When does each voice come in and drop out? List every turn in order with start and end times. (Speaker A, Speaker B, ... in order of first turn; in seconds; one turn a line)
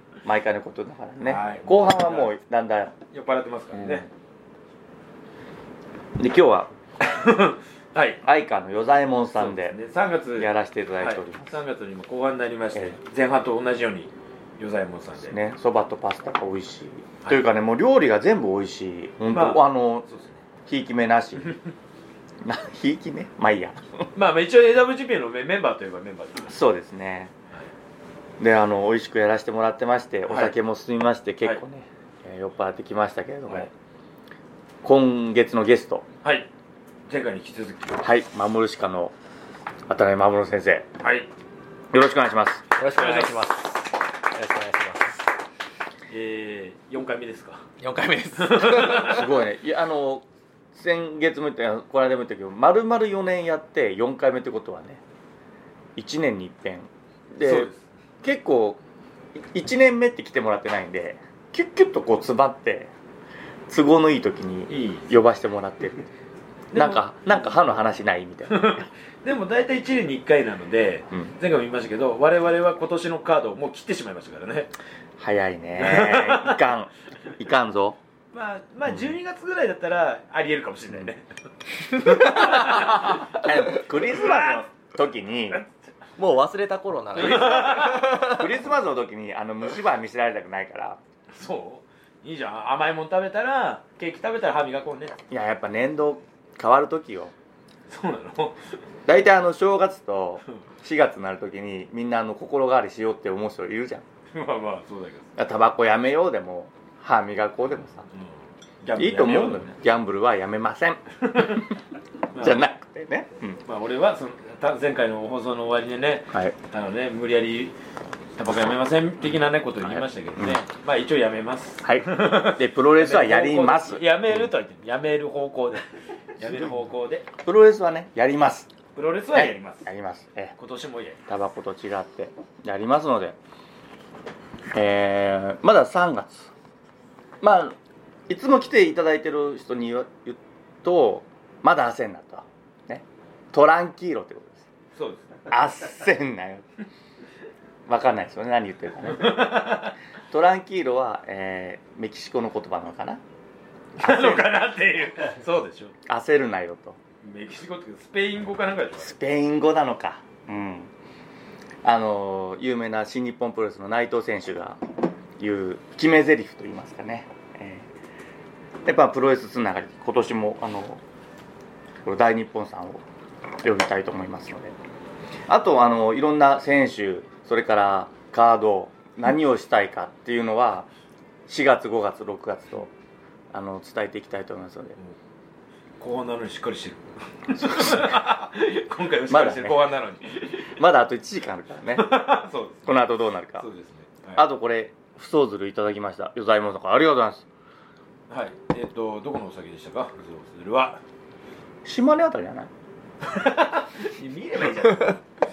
Speaker A: 0.2-3.0
Speaker B: 1.2-2.3
Speaker B: 3.1-4.1
Speaker A: 3.8-4.0
Speaker A: 6.2-6.7
Speaker B: 7.0-8.2
Speaker A: 8.2-9.8
Speaker B: 9.3-15.4
Speaker A: 10.4-11.6
Speaker A: 15.2-20.1
Speaker B: 19.3-20.4
Speaker A: 20.7-21.6
Speaker A: 22.4-24.1
Speaker B: 24.1-26.6
Speaker A: 26.5-27.3
Speaker A: 28.4-33.7
Speaker B: 30.3-30.6
Speaker A: 34.8-36.1
Speaker B: 37.1-38.0
Speaker A: 38.0-39.1
Speaker A: 39.9-40.9
Speaker B: 41.0-41.3
Speaker A: 41.9-42.7
Speaker C: 42.8-45.2
Speaker B: 42.9-43.5
Speaker B: 46.1-47.6
Speaker C: 47.8-49.2
Speaker B: 48.4-49.2
Speaker A: 49.0-55.0
Speaker A: 56.0-57.7
Speaker B: 57.4-57.8
Speaker A: 58.2-58.8
Speaker A: 59.4-62.9
Speaker A: 63.7-66.1
Speaker B: 64.7-65.1
Speaker B: 66.7-67.6
Speaker A: 66.7-68.8
Speaker B: 68.5-74.7
Speaker A: 75.2-78.0
Speaker B: 75.8-76.6
Speaker B: 78.3-81.3
Speaker A: 78.9-79.1
Speaker B: 81.9-84.6
Speaker C: 82.1-83.2
Speaker A: 82.7-85.6
Speaker C: 86.2-88.5
Speaker B: 87.2-88.1
Speaker A: 87.2-87.7
Speaker A: 88.2-91.0
Speaker B: 91.3-95.2
Speaker A: 95.3-97.3
Speaker B: 97.9-98.7
Speaker A: 99.1-104.0
Speaker B: 104.3-105.3
Speaker A: 105.4-108.1
Speaker B: 108.1-109.7
Speaker A: 109.0-111.5
Speaker B: 111.2-111.7
Speaker B: 112.3-112.6
Speaker A: 112.4-113.6
Speaker B: 113.7-117.8
Speaker B: 118.4-125.8
Speaker A: 119.8-120.6
Speaker A: 121.8-124.0
Speaker B: 126.4-127.3
Speaker A: 127.4-128.7
Speaker B: 128.9-129.9
Speaker A: 129.3-130.6
Speaker B: 130.6-131.2
Speaker A: 131.3-133.4
Speaker A: 134.7-136.5
Speaker A: 137.4-137.8
Speaker A: 138.3-144.7
Speaker B: 144.9-145.5
Speaker A: 145.5-146.7
Speaker A: 147.9-149.7
Speaker B: 149.2-149.9
Speaker A: 150.3-153.2
Speaker B: 154.0-155.9
Speaker A: 154.0-154.6
Speaker A: 156.1-157.0
Speaker B: 157.2-159.2
Speaker A: 159.0-160.9
Speaker A: 161.8-164.8
Speaker A: 165.4-167.9
Speaker A: 168.8-171.0
Speaker A: 172.1-173.0
Speaker A: 173.6-174.8
Speaker A: 175.5-180.9
Speaker A: 181.5-182.9
Speaker A: 183.5-185.0
Speaker B: 186.0-190.8
Speaker A: 187.8-188.0
Speaker A: 189.3-189.8
Speaker A: 190.8-192.1
Speaker B: 191.9-194.4
Speaker A: 192.9-193.7
Speaker A: 194.3-197.5
Speaker B: 198.3-201.0
Speaker A: 201.8-202.7
Speaker B: 203.3-205.2